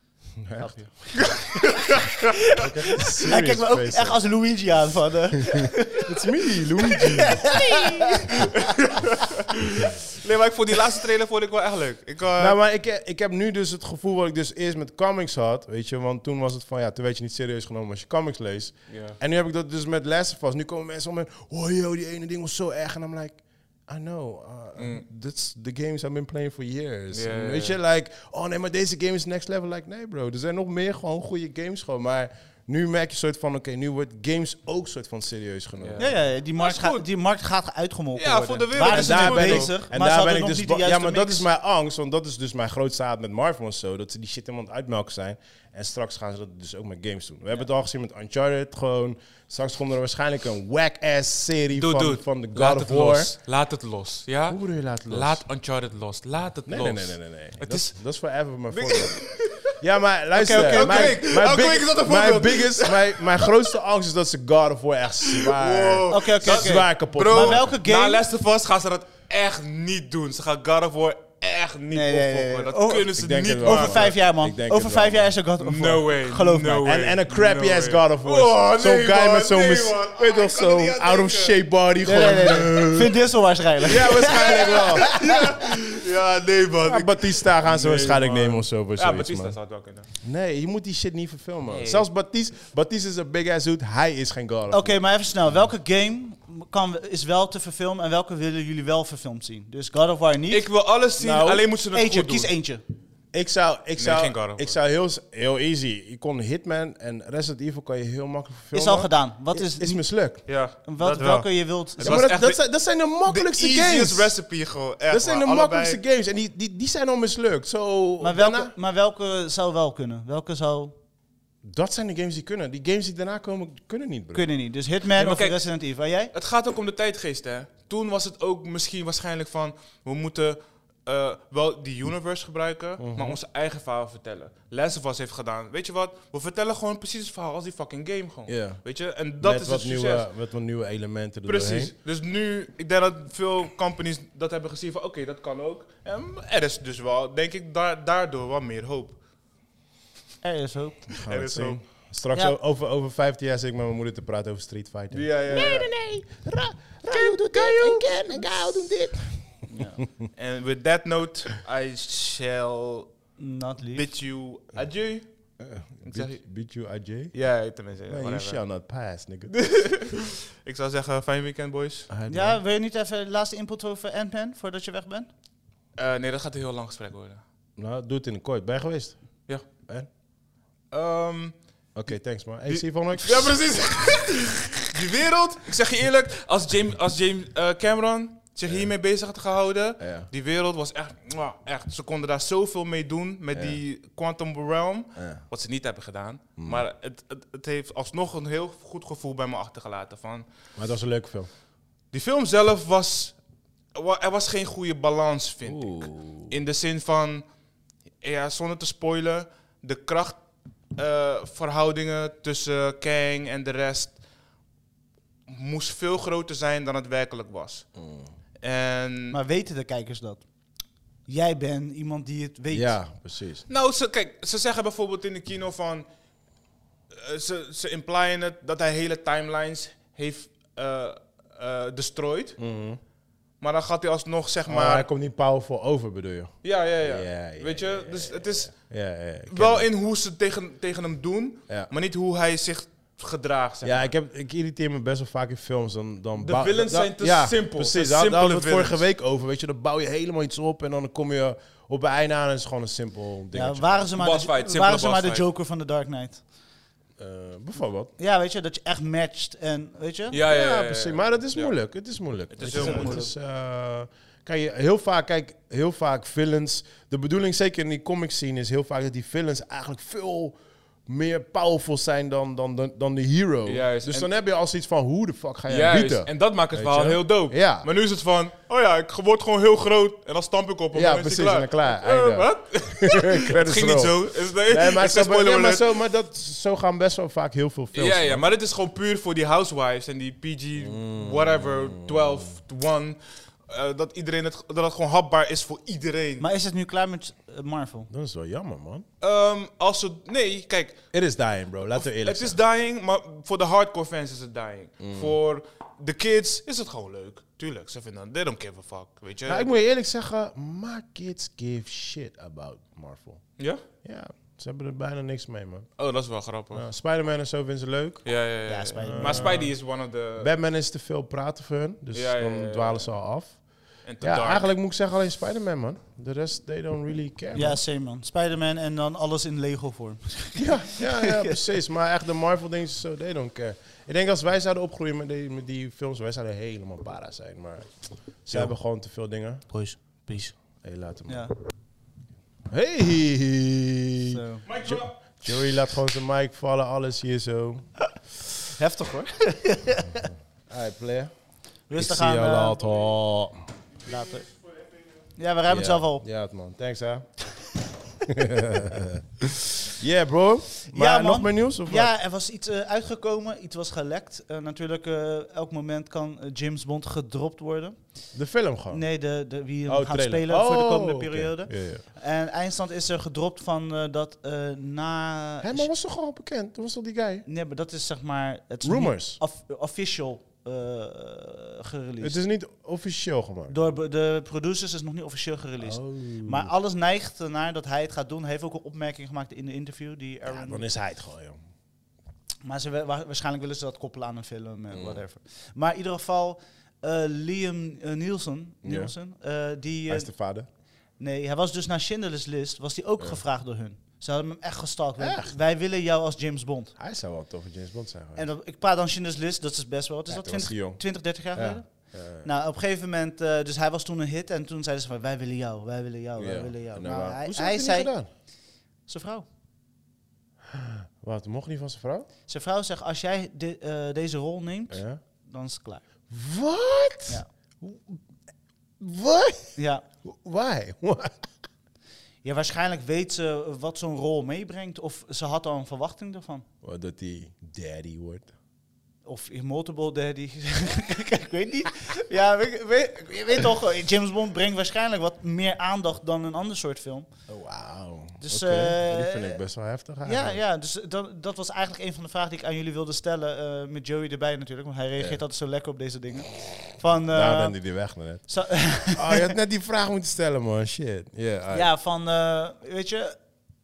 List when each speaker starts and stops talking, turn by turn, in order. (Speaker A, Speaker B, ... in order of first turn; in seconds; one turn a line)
Speaker A: 0.4-0.8
Speaker B: 0.7-2.4
Speaker C: 2.5-6.1
Speaker A: 2.5-4.2
Speaker A: 5.5-7.4
Speaker C: 6.9-8.5
Speaker B: 7.5-12.6
Speaker A: 12.4-36.2
Speaker B: 18.9-19.2
Speaker B: 24.8-25.1
Speaker B: 27.1-27.8
Speaker B: 35.8-37.1
Speaker C: 36.0-41.5
Speaker B: 38.2-39.8
Speaker A: 38.8-53.3
Speaker B: 51.7-57.9
Speaker A: 54.5-55.4
Speaker A: 56.7-59.2
Speaker B: 58.7-59.7
Speaker A: 59.7-67.8
Speaker C: 60.4-61.2
Speaker B: 60.5-63.6
Speaker B: 65.2-74.1
Speaker C: 66.1-68.2
Speaker C: 71.9-76.9
Speaker A: 73.1-75.3
Speaker B: 75.6-81.6
Speaker A: 76.8-83.2
Speaker C: 82.0-85.5
Speaker A: 83.8-85.2
Speaker B: 83.9-90.1
Speaker A: 86.8-89.6
Speaker A: 90.2-95.0
Speaker B: 91.7-92.1
Speaker C: 94.7-100.7
Speaker B: 100.5-102.5
Speaker A: 101.2-101.7
Speaker C: 101.9-102.8
Speaker A: 103.3-110.5
Speaker B: 104.0-104.8
Speaker C: 108.7-110.0
Speaker B: 110.5-116.0
Speaker C: 110.8-112.2
Speaker A: 112.0-114.3
Speaker A: 115.1-118.7
Speaker C: 118.2-121.0
Speaker A: 121.6-124.5
Speaker C: 124.3-126.3
Speaker B: 125.2-125.6
Speaker B: 126.3-140.3
Speaker A: 133.0-133.4
Speaker A: 138.5-138.8
Speaker A: 139.4-141.9
Speaker B: 141.5-149.2
Speaker C: 150.4-151.1
Speaker A: 151.2-159.7
Speaker B: 151.2-151.8
Speaker B: 155.1-156.2
Speaker B: 157.1-158.3
Speaker C: 159.7-160.0
Speaker B: 160.3-163.3
Speaker C: 163.4-164.1
Speaker B: 163.9-165.3
Speaker A: 165.6-167.4
Speaker B: 166.0-166.4
Speaker B: 167.3-168.6
Speaker A: 168.1-169.6
Speaker B: 169.5-172.1
Speaker A: 172.1-172.6
Speaker C: 172.3-175.3
Speaker B: 176.0-177.4
Speaker A: 177.8-180.1
Speaker B: 180.9-181.6
Speaker A: 181.9-183.7
Speaker B: 182.7-200.5
Speaker A: 188.7-188.9
Speaker A: 190.0-190.3
Speaker A: 193.5-193.8
Speaker A: 195.2-195.4
Speaker A: 196.6-196.8
Speaker A: 200.8-201.5
Speaker B: 202.1-203.4
Speaker B: 203.9-207.4
Speaker A: 205.7-206.5
Speaker B: 208.2-210.4
Speaker B: 211.0-214.2
Speaker B: 215.5-217.9
Speaker A: 218.0-218.3
Speaker B: 218.6-219.4
Speaker C: 219.3-220.4
Speaker C: 221.3-223.0
Speaker A: 222.7-223.7
Speaker B: 223.7-226.1
Speaker B: 227.1-232.6
Speaker A: 232.6-233.0
Speaker B: 233.6-235.1
Speaker A: 234.7-239.9
Speaker B: 236.6-238.8
Speaker B: 239.5-244.1
Speaker A: 243.8-254.1
Speaker B: 246.4-249.0
Speaker C: 253.5-256.4
Speaker B: 254.2-255.4
Speaker A: 257.2-258.1
Speaker C: 258.2-260.4
Speaker B: 260.3-261.7
Speaker A: 260.4-277.9
Speaker B: 262.5-263.3
Speaker C: 262.6-263.3
Speaker B: 273.7-274.3
Speaker B: 275.7-285.8
Speaker A: 280.9-288.4
Speaker B: 287.9-296.4
Speaker A: 290.8-292.5
Speaker C: 296.4-298.1
Speaker A: 298.1-299.1
Speaker B: 299.2-301.0
Speaker A: 301.1-302.6
Speaker B: 301.9-309.7
Speaker A: 305.0-305.4
Speaker A: 309.5-313.4
Speaker B: 313.6-313.8
Speaker A: 314.0-315.9
Speaker B: 316.0-316.9
Speaker A: 316.7-318.3
Speaker B: 318.2-320.5
Speaker C: 318.7-319.7
Speaker A: 319.0-319.8
Speaker A: 320.4-323.6
Speaker B: 322.1-323.1
Speaker B: 324.1-324.7
Speaker A: 324.2-327.8
Speaker C: 327.6-331.7
Speaker A: 330.6-339.6
Speaker C: 339.7-340.6
Speaker A: 340.8-341.5
Speaker C: 341.3-341.5
Speaker A: 342.7-347.9
Speaker C: 344.3-344.7
Speaker B: 344.7-345.1
Speaker C: 348.8-350.3
Speaker A: 350.7-351.3
Speaker C: 351.9-352.8
Speaker A: 352.0-353.6
Speaker C: 354.1-354.5
Speaker C: 355.4-356.2
Speaker A: 355.7-357.3
Speaker A: 358.3-362.1
Speaker C: 360.9-368.0
Speaker A: 368.3-369.0
Speaker C: 368.9-375.9
Speaker A: 369.9-372.0
Speaker A: 375.6-377.5
Speaker C: 377.4-382.4
Speaker A: 378.8-379.4
Speaker A: 382.2-383.8
Speaker C: 383.7-390.9
Speaker A: 385.8-386.7
Speaker A: 390.5-391.6
Speaker C: 392.6-400.3
Speaker A: 394.9-395.2
Speaker A: 398.8-399.1
Speaker A: 400.1-400.7
Speaker C: 401.2-406.9
Speaker A: 405.2-405.6
Speaker A: 407.0-408.5
Speaker C: 408.4-411.9
Speaker A: 410.3-411.0
Speaker A: 411.5-412.5
Speaker C: 412.4-418.1
Speaker A: 416.4-418.3
Speaker C: 419.1-419.5
Speaker A: 420.7-422.3
Speaker C: 422.5-426.1
Speaker A: 424.9-425.2
Speaker A: 426.3-428.2
Speaker A: 429.0-431.4
Speaker C: 429.8-430.1
Speaker C: 432.4-436.6
Speaker A: 436.8-438.5
Speaker C: 439.2-447.3
Speaker A: 447.5-450.6
Speaker C: 448.4-449.6
Speaker C: 450.2-457.8
Speaker A: 457.3-458.5
Speaker C: 458.5-459.6
Speaker A: 459.1-461.9
Speaker C: 461.7-463.4